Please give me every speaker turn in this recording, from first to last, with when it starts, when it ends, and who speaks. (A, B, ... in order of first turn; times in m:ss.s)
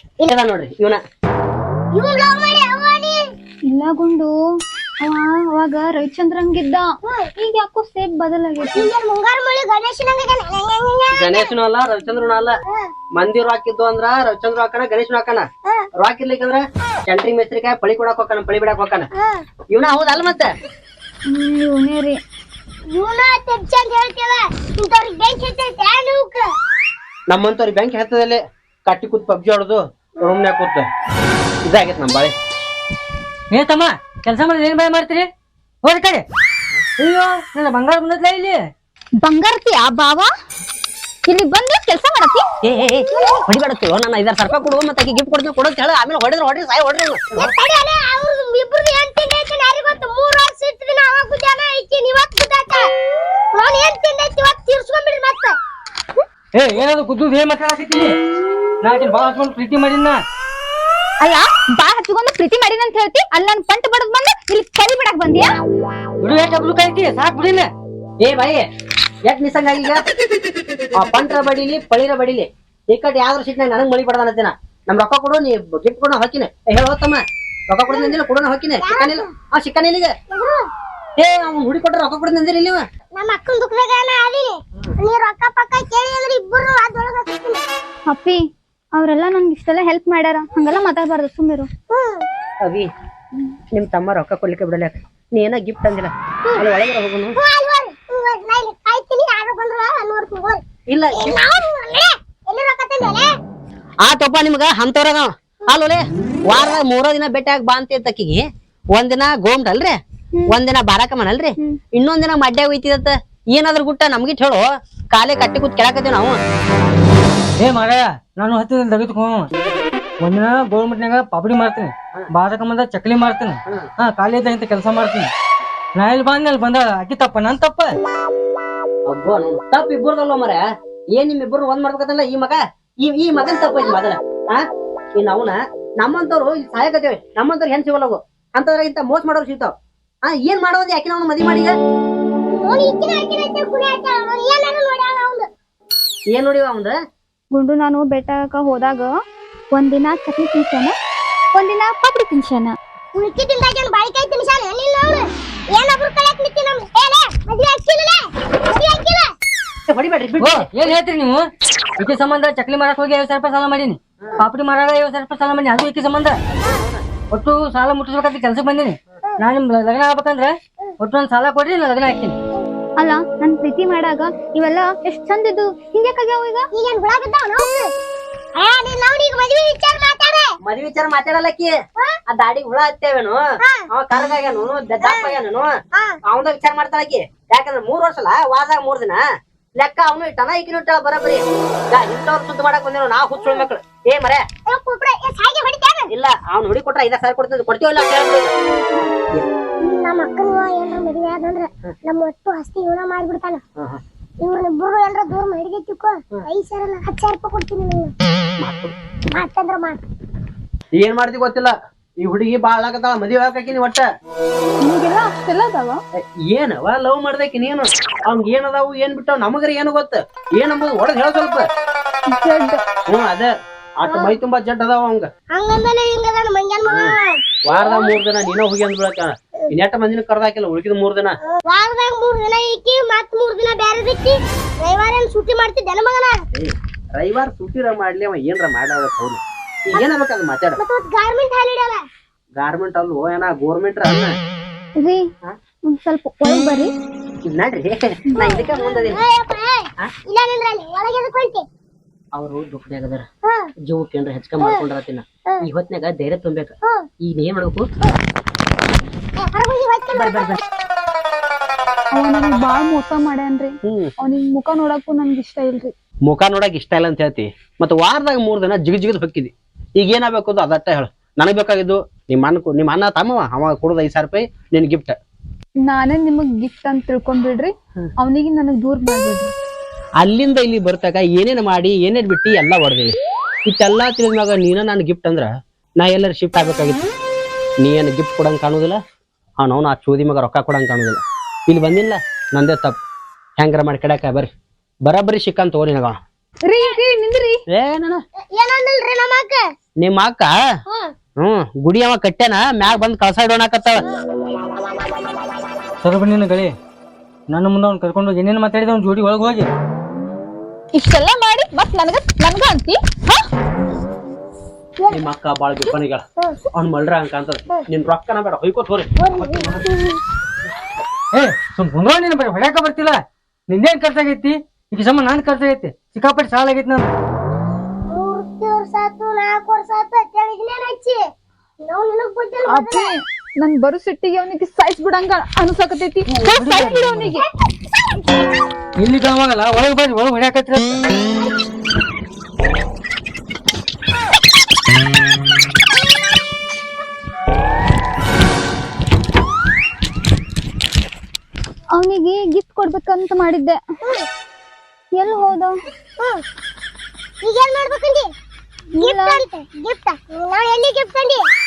0:00.2-0:01.0 A
0:01.9-0:03.2 B
0:03.7-0:04.3 C
0:05.0-0:08.9 C
0:08.6-0:11.5 B
0:11.2-0:12.6 A
0:13.2-0:15.5 A
0:16.0-0:19.1 A
0:19.2-0:19.4 B
0:19.7-0:20.5 A
0:21.3-0:22.2 C
0:22.9-0:26.5 B
0:27.3-0:30.9 A
0:31.6-0:32.3 A
0:33.5-0:35.3 D
0:35.8-0:36.2 D
0:37.0-0:38.6 D
0:39.2-0:40.3 C
0:41.3-0:42.5 C
0:42.6-0:47.5 A
0:47.4-0:52.9 B
0:53.5-0:55.6 B
0:56.6-0:58.1 D
0:58.8-1:00.2 D
1:01.2-1:05.5 C
1:06.2-1:07.7 D
1:08.2-1:08.6 A
1:09.3-1:10.1 A
1:10.9-1:20.1 A
1:17.9-1:18.2 B
1:18.8-1:19.3 B
1:20.3-1:20.7 B
1:21.2-1:22.8 A
1:23.2-1:27.6 B
1:28.1-1:28.4 C
1:29.0-1:31.7 C
1:31.9-1:32.3 B
1:32.6-1:32.9 A
1:33.7-1:37.4 A
1:37.4-1:40.6 B
1:40.9-1:41.4 A
1:41.1-1:43.3 B
1:44.0-1:50.0 A
1:50.5-1:56.4 A
1:57.6-1:59.5 D
2:00.2-2:05.3 D
2:06.0-2:08.0 D
2:09.1-2:10.6 A
2:11.1-2:14.6 A
2:15.2-2:19.7 A
2:20.3-2:21.7 A
2:22.6-2:25.5 B
2:26.3-2:27.0 A
2:27.5-2:29.1 C
2:29.7-2:31.0 C
2:31.6-2:32.8 C
2:33.2-2:39.3 B
2:39.9-2:40.7 A
2:40.4-2:41.5 D
2:42.0-2:46.4 D
2:46.5-2:47.0 A
2:47.3-2:52.4 D
2:53.0-2:56.7 C
2:56.7-2:57.9 B
2:58.6-3:00.5 B
3:00.6-3:01.7 A
3:02.3-3:05.7 A
3:05.0-3:05.4 B
3:06.3-3:09.2 A
3:09.8-3:14.4 A
3:13.4-3:13.7 B
3:14.7-3:16.1 B
3:16.1-3:18.5 A
3:19.8-3:23.6 B
3:24.4-3:28.1 B
3:28.6-3:28.9 A
3:29.3-3:30.0 B
3:31.0-3:34.1 A
3:34.8-3:36.0 C
3:36.2-3:41.7 A
3:42.3-3:42.8 C
3:43.1-3:45.3 A
3:44.1-3:44.4 B
3:45.5-3:48.2 B
3:46.9-3:47.1 A
3:47.7-3:51.4 A
3:51.5-3:56.4 B
3:56.5-4:00.8 A
4:00.8-4:02.0 B
4:02.6-4:04.3 A
4:05.0-4:05.2 C
4:05.9-4:06.9 C
4:07.5-4:09.2 A
4:08.4-4:11.6 B
4:12.3-4:13.3 A
4:13.8-4:17.9 A
4:19.4-4:20.6 B
4:20.1-4:20.6 A
4:22.2-4:25.9 C
4:23.9-4:24.1 A
4:26.2-4:35.2 A
4:35.8-4:39.5 C
4:40.2-4:43.2 A
4:43.7-4:47.0 A
4:47.8-4:49.0 A
4:49.6-4:53.0 A
4:53.6-4:54.5 A
4:55.0-4:56.2 A
4:56.7-4:57.6 C
4:57.7-4:58.2 A
4:58.5-4:59.6 B
5:00.0-5:00.5 A
5:01.4-5:04.0 A
5:06.0-5:06.8 D
5:07.5-5:09.7 D
5:11.0-5:13.4 C
5:15.1-5:19.1 A
5:19.2-5:20.2 B
5:19.4-5:19.8 D
5:21.3-5:27.1 D
5:28.1-5:31.2 B
5:31.8-5:33.1 B
5:32.7-5:37.5 C
5:36.3-5:37.4 D
5:39.0-5:41.0 D
5:52.0-5:53.8 C
5:55.1-5:55.8 C
5:57.4-5:58.3 B
5:59.0-5:59.4 C
5:59.0-6:01.4 B